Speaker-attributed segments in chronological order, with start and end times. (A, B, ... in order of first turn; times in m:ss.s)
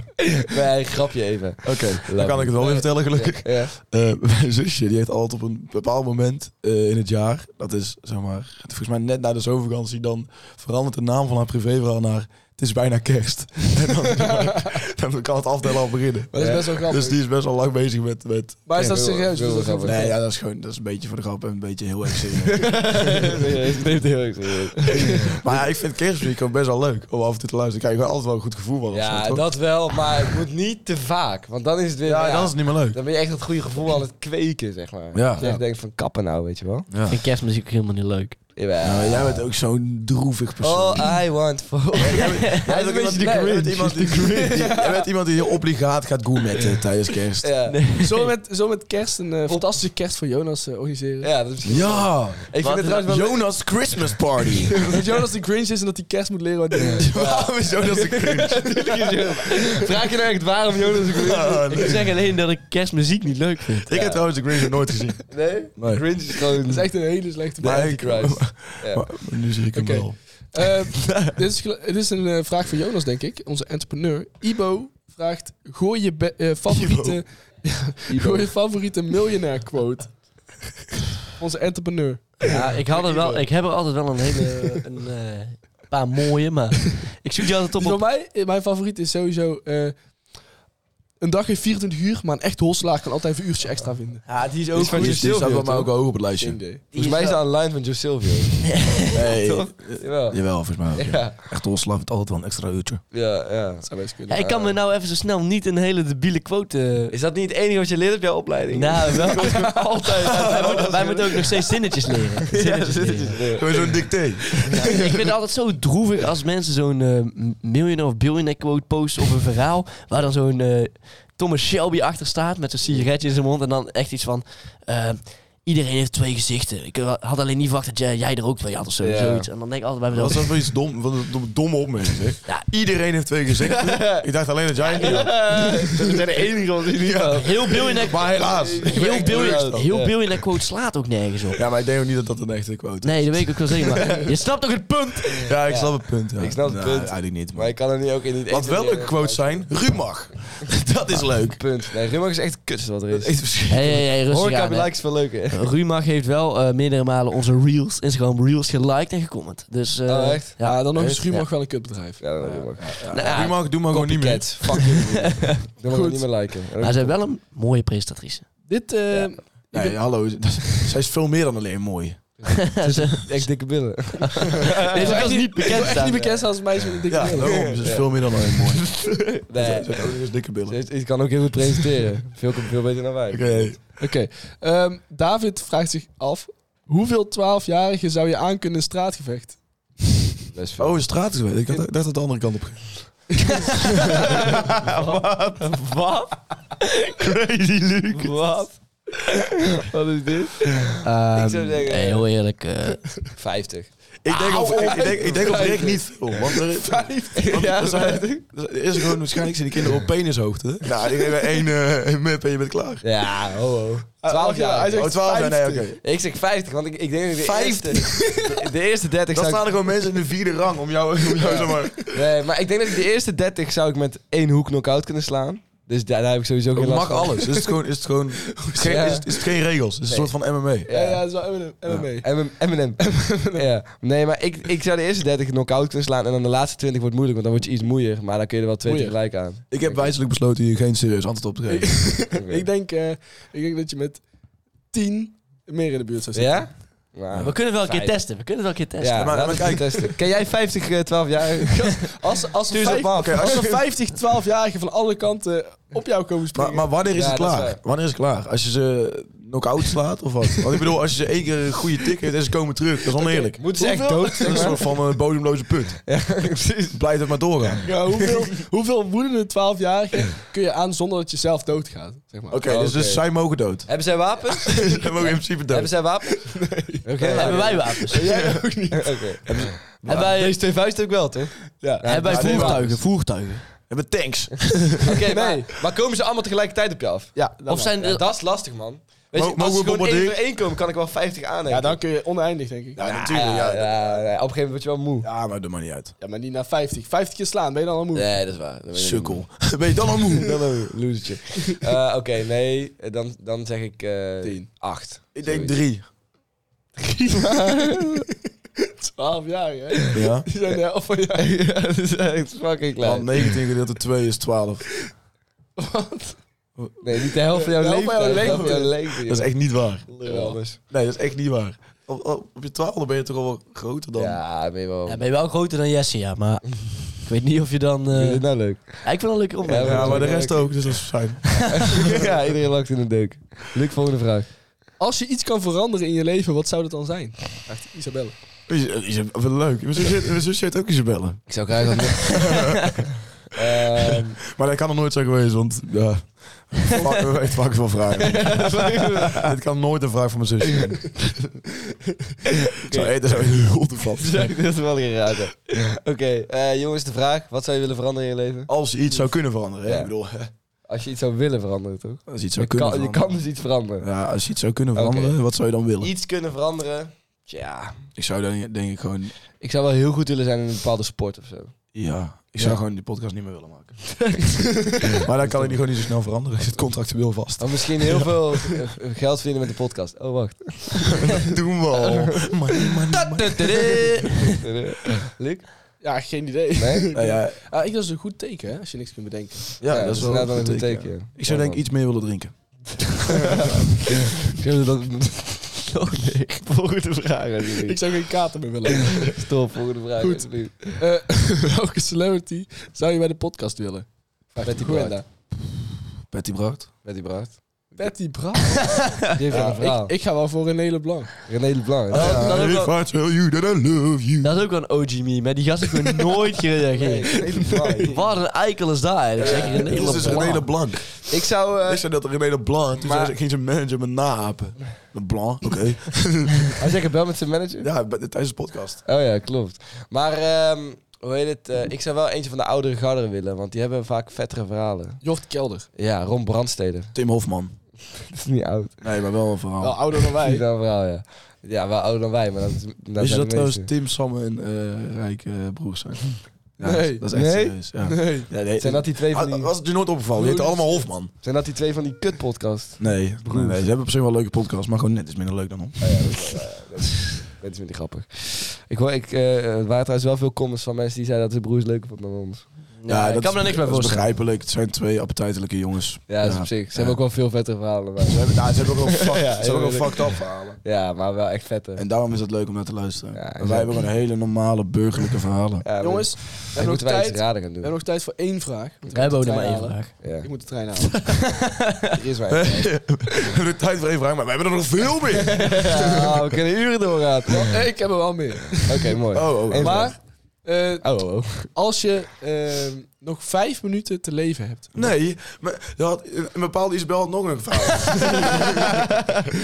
0:00.4-0:03.7 A
0:01.6-0:19.1 B
0:16.3-0:17.2 C
0:16.4-0:16.6 A
0:18.7-0:20.2 C
0:18.8-0:20.1 A
0:19.8-0:23.2 B
0:22.4-0:25.6 A
0:24.9-0:29.4 B
0:28.9-0:36.9 A
0:32.0-0:33.0 B
0:35.1-0:35.5 B
0:35.4-0:35.6 C
0:36.9-0:37.2 B
0:37.0-0:38.4 D
0:38.6-0:39.4 A
0:38.8-0:41.2 B
0:40.6-0:44.7 A
0:42.0-0:47.5 B
0:42.1-0:42.7 D
0:44.6-0:45.1 C
0:47.4-0:47.9 A
0:47.7-0:48.3 D
0:48.0-0:51.3 C
0:51.2-0:53.5 A
0:51.6-0:52.5 B
0:52.6-0:53.0 D
0:53.0-0:54.8 B
0:54.7-0:55.0 A
0:54.8-0:57.1 C
0:56.7-0:58.7 B
0:57.0-1:01.8 A
0:57.8-0:59.9 C
1:01.1-1:02.1 B
1:01.7-1:04.0 D
1:03.9-1:06.1 B
1:03.9-1:04.3 A
1:05.3-1:09.3 A
1:06.6-1:08.0 C
1:07.6-1:10.2 B
1:09.7-1:20.1 C
1:11.0-1:11.4 A
1:16.7-1:17.2 B
1:18.1-1:18.5 B
1:21.3-1:23.4 C
1:22.4-1:28.0 D
1:27.8-1:30.0 C
1:31.2-1:34.2 C
1:34.3-1:35.2 D
1:34.3-1:35.9 A
1:34.8-1:36.6 B
1:36.4-1:36.9 C
1:36.9-1:38.8 A
1:36.9-1:37.4 D
1:38.7-1:39.1 D
1:39.1-1:43.0 B
1:39.4-1:41.4 A
1:43.1-1:44.7 A
1:43.8-1:44.4 C
1:44.3-1:47.1 D
1:47.1-1:55.1 A
1:48.7-1:53.6 D
1:49.3-1:49.9 C
1:50.6-1:50.9 B
1:53.6-1:54.9 B
1:54.8-2:10.7 D
2:09.0-2:09.5 A
2:10.1-2:16.3 B
2:13.7-2:14.3 A
2:14.9-2:20.2 A
2:17.0-2:19.9 B
2:17.3-2:21.6 D
2:21.5-2:23.9 B
2:23.0-2:25.6 D
2:25.4-2:27.7 B
2:25.7-2:29.7 A
2:28.5-2:31.6 B
2:31.5-2:35.7 A
2:33.1-2:33.4 B
2:33.7-2:41.5 D
2:40.1-2:40.6 A
2:40.6-2:42.2 C
2:41.0-2:41.2 B
2:42.2-2:47.2 A
2:42.4-2:44.5 B
2:43.0-2:43.8 D
2:44.6-2:45.6 D
2:45.8-2:46.3 C
2:46.8-2:48.5 D
2:48.7-2:50.0 C
2:49.1-2:49.4 A
2:49.7-2:52.5 B
2:50.6-2:50.9 C
2:52.5-2:53.3 D
2:52.6-2:56.0 A
2:54.3-2:56.4 D
2:54.9-2:57.8 C
2:57.1-3:00.8 B
2:57.3-2:58.3 A
2:58.9-3:00.1 A
3:00.7-3:03.8 A
3:03.3-3:03.8 B
3:04.0-3:09.6 C
3:10.5-3:11.0 A
3:10.8-3:13.4 B
3:13.4-3:13.7 C
3:14.7-3:16.4 A
3:14.7-3:16.0 D
3:16.8-3:18.4 D
3:18.1-3:18.8 A
3:19.5-3:20.6 A
3:21.0-3:23.3 D
3:21.3-3:22.3 A
3:23.4-3:26.4 A
3:24.2-3:33.0 B
3:24.5-3:28.0 C
3:27.3-3:28.4 A
3:31.0-3:31.6 C
3:33.0-3:35.2 A
3:34.2-3:35.9 C
3:34.9-3:36.0 B
3:36.0-3:39.7 A
3:37.4-3:38.4 B
3:39.3-3:42.3 B
3:41.5-3:42.0 C
3:41.6-3:47.4 A
3:46.7-3:50.9 B
3:47.4-3:47.8 C
3:48.4-3:49.3 C
3:48.8-3:49.3 A
3:50.9-3:51.3 A
3:50.9-3:53.7 C
3:52.2-4:00.1 A
3:58.8-3:59.2 C
3:59.7-4:02.3 B
4:01.7-4:04.2 C
4:02.3-4:02.7 A
4:04.9-4:06.7 C
4:06.3-4:08.2 A
4:07.3-4:09.4 D
4:09.0-4:13.8 A
4:09.1-4:10.1 B
4:12.0-4:17.0 C
4:13.2-4:13.7 B
4:16.5-4:26.0 B
4:17.1-4:17.8 A
4:23.4-4:24.8 C
4:23.6-4:25.0 A
4:26.0-4:27.0 A
4:26.9-4:27.9 B
4:27.8-4:32.6 C
4:32.5-4:36.0 B
4:32.6-4:39.4 A
4:36.3-4:39.5 C
4:37.3-4:38.5 D
4:38.2-4:38.7 B
4:39.4-4:40.3 B
4:40.0-4:43.0 A
4:40.0-4:40.6 D
4:41.8-4:42.7 C
4:42.0-4:43.7 D
4:42.2-4:43.0 B
4:43.9-4:45.2 B
4:45.0-4:52.0 A
4:45.1-4:45.6 C
4:47.3-4:48.0 C
4:47.7-4:48.2 D
4:49.3-4:50.4 B
4:51.7-4:53.1 C
4:53.0-4:54.2 B
4:53.0-4:55.3 A
4:55.2-4:56.1 B
4:56.2-4:58.3 C
4:58.1-4:59.6 A
4:58.9-5:00.9 B
5:00.8-5:05.8 A
5:05.3-5:06.0 B
5:07.0-5:11.5 C
5:07.3-5:08.3 A
5:10.1-5:10.5 B
5:11.3-5:13.3 A
5:13.0-5:15.0 B
5:15.8-5:16.4 C
5:16.8-5:17.3 B
5:17.0-5:19.6 A
5:17.5-5:19.0 C
5:19.2-5:24.4 B
5:20.1-5:20.8 A
5:24.1-5:25.2 A
5:25.0-5:30.4 D
5:28.1-5:30.7 A
5:29.8-5:32.1 B
5:31.7-5:34.5 A
5:35.0-5:38.3 C
5:38.7-5:42.9 B
5:41.5-5:42.6 A
5:43.6-5:44.4 A
5:44.0-5:51.2 B
5:48.2-5:49.5 A
5:52.6-5:53.2 A
5:52.8-5:54.5 B
5:54.1-5:58.7 A
5:58.7-6:00.5 B
5:59.8-6:00.1 A
6:00.9-6:04.1 A
6:02.3-6:03.3 B
6:04.0-6:06.1 B
6:04.9-6:05.4 A
6:06.0-6:08.0 A
6:08.2-6:09.3 B
6:09.6-6:11.7 A
6:11.9-6:14.0 B
6:14.9-6:15.8 A
6:15.1-6:18.3 B
6:17.6-6:21.3 A
6:21.2-6:24.3 B
6:22.0-6:22.5 A
6:23.3-6:24.6 D
6:24.5-6:25.7 A
6:26.0-6:30.2 C
6:26.8-6:27.1 A
6:27.1-6:27.6 B
6:29.8-6:32.5 B
6:29.8-6:31.8 A
6:33.3-6:38.1 A
6:33.4-6:33.8 C
6:36.1-6:36.5 D
6:37.8-6:39.4 C
6:39.1-6:41.0 A
6:40.2-6:45.3 C
6:44.6-6:45.2 A
6:46.3-6:46.9 B
6:47.0-6:48.1 A
6:48.0-6:51.4 C
6:49.3-6:50.1 A
6:51.4-6:52.6 A
6:52.1-6:54.6 B
6:52.1-6:52.9 D
6:54.4-7:00.7 D
6:57.0-6:58.3 A
6:59.4-7:02.1 A
6:59.4-7:06.8 B
7:03.0-7:03.3 A
7:06.8-7:07.9 A
7:07.8-7:09.0 B
7:09.0-7:15.2 A
7:15.2-7:15.9 C
7:15.9-7:17.1 A
7:17.1-7:17.8 B
7:18.1-7:19.0 A
7:19.0-7:20.0 B
7:19.8-7:20.6 C
7:20.2-7:23.9 A
7:23.2-7:31.3 B
7:26.8-7:27.3 C
7:27.3-7:27.8 A
7:27.9-7:28.5 C
7:28.7-7:29.7 A
7:30.4-7:31.1 C
7:31.3-7:33.8 A
7:33.0-7:36.4 B
7:36.0-7:42.7 A
7:43.0-7:44.2 D
7:43.1-7:47.2 B
7:46.3-7:52.0 A
7:48.2-7:50.8 B
7:52.0-7:55.9 B
7:53.3-7:54.1 A
7:55.8-7:58.0 A
7:56.0-8:01.4 C
7:59.1-8:00.2 D
8:00.1-8:00.5 A
8:01.0-8:02.1 D
8:02.1-8:03.0 A
8:02.5-8:06.1 B
8:05.6-8:08.0 A
8:07.5-8:09.2 C
8:08.9-8:10.1 A
8:09.3-8:10.1 B
8:09.7-8:11.1 C
8:11.0-8:11.7 A
8:11.7-8:15.1 C
8:14.9-8:19.0 B
8:18.0-8:18.7 C